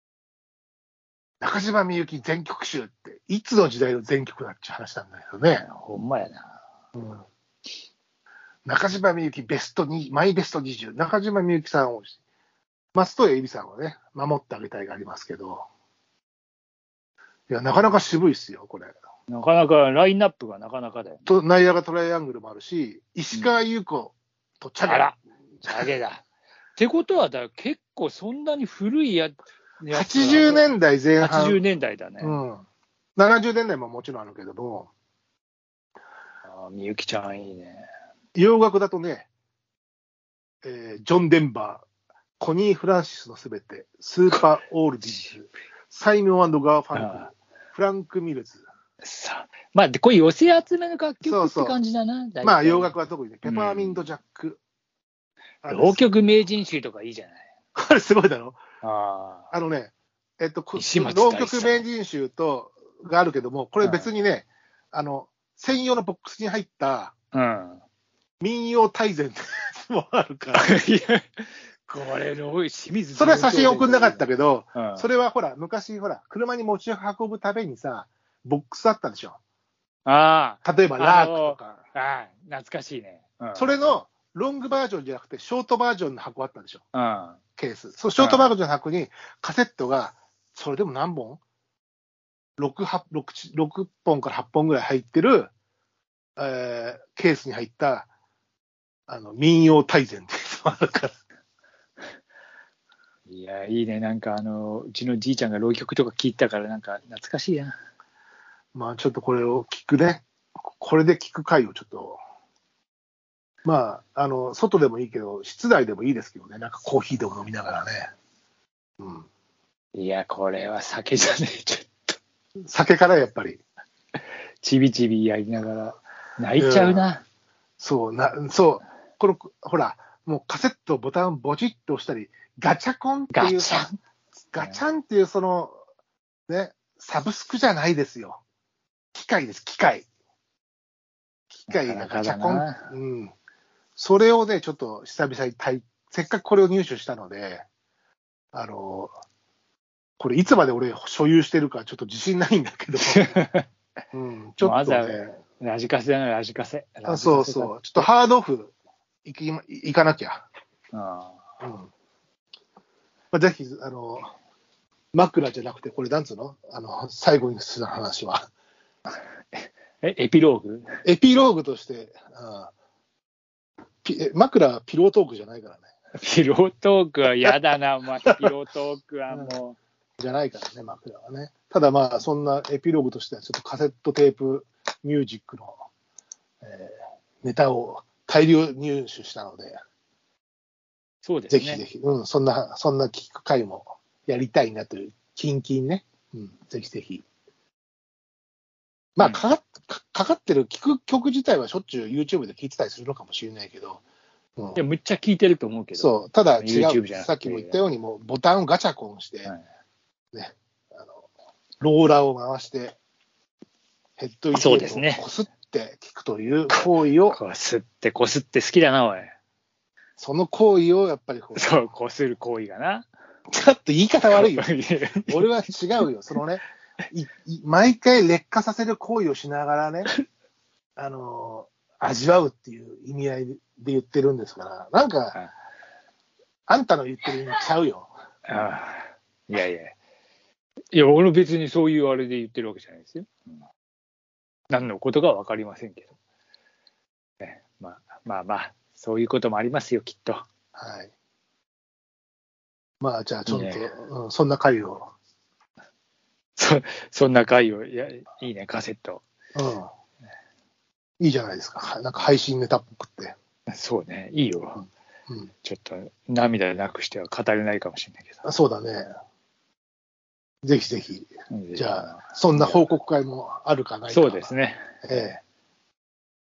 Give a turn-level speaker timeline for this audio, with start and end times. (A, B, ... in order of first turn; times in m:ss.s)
0:01.4-0:05.7 A
0:05.6-0:06.6 B
0:06.9-0:07.2 A
0:08.7-0:12.2 A
0:12.9-0:15.7 A
0:17.5-0:18.9 A
0:19.3-0:21.3 B
0:21.3-0:25.1 A
0:23.3-0:23.6 B
0:24.8-0:26.2 B
0:26.8-0:32.4 B
0:29.9-0:31.6 A
0:32.2-0:32.6 A
0:33.2-0:34.9 A
0:36.5-0:37.9 B
0:38.4-0:39.3 A
0:40.6-0:41.8 A
0:42.4-0:48.6 A
0:46.9-0:47.3 B
0:49.0-0:54.1 B
0:51.2-0:51.8 A
0:52.4-0:54.6 A
0:55.6-0:56.1 A
0:55.7-0:57.4 B
0:57.8-0:58.6 A
0:58.8-0:59.5 B
0:59.5-1:07.1 A
1:00.8-1:01.8 B
1:03.8-1:04.1 B
1:07.3-1:07.8 B
1:08.4-1:10.8 A
1:10.6-1:15.1 B
1:13.1-1:19.4 A
1:20.1-1:23.9 B
1:20.6-1:21.8 A
1:23.6-1:26.8 A
1:26.9-1:27.4 B
1:27.6-1:31.4 A
1:28.2-1:28.5 B
1:32.6-1:35.5 A
1:36.4-1:38.1 A
1:39.1-1:41.2 A
1:43.3-1:47.8 B
1:48.7-1:52.2 A
1:53.6-1:58.1 A
1:59.0-1:59.3 A
2:00.0-2:02.2 B
2:02.7-2:03.6 A
2:04.6-2:07.2 B
2:06.6-2:07.1 A
2:07.8-2:13.9 A
2:13.3-2:14.0 B
2:14.5-2:15.8 A
2:16.5-2:18.4 A
2:19.1-2:20.1 A
2:21.6-2:23.3 A
2:21.7-2:22.9 B
2:24.0-2:27.6 A
2:28.5-2:29.1 A
2:30.2-2:33.3 A
2:33.1-2:33.7 B
2:34.1-2:35.4 A
2:34.6-2:38.1 B
2:37.0-2:38.7 A
2:39.2-2:40.5 A
2:40.9-2:41.4 B
2:41.6-2:41.9 A
2:43.3-2:44.3 A
2:45.1-2:48.5 A
2:49.6-2:50.9 B
2:51.0-2:52.7 A
2:54.0-2:55.9 A
2:56.2-2:59.8 B
2:59.3-2:59.6 A
3:00.2-3:05.8 A
3:06.6-3:09.8 A
3:11.2-3:11.8 B
3:11.5-3:17.2 A
3:19.2-3:24.0 A
3:19.2-3:19.4 B
3:24.8-3:27.8 B
3:26.0-3:29.5 A
3:30.3-3:31.1 A
3:31.8-3:33.0 A
3:34.2-3:37.4 A
3:34.5-3:35.2 B
3:37.3-3:39.3 B
3:40.2-3:41.8 A
3:41.6-3:43.1 B
3:43.5-3:44.7 A
3:44.3-3:46.0 B
3:45.3-3:50.1 A
3:51.0-3:55.4 A
3:56.7-3:58.1 A
3:58.5-4:00.0 B
4:00.9-4:03.3 B
4:04.7-4:06.1 B
4:07.4-4:10.4 B
4:10.8-4:11.1 A
4:13.0-4:15.1 A
4:13.5-4:13.8 B
4:16.6-4:19.2 B
4:19.6-4:19.9 A
4:21.2-4:23.4 A
4:23.7-4:24.8 B
4:25.6-4:28.4 B
4:28.4-4:29.1 A
4:30.6-4:34.5 A
4:31.5-4:32.8 B
4:34.1-4:35.3 B
4:35.0-4:35.4 A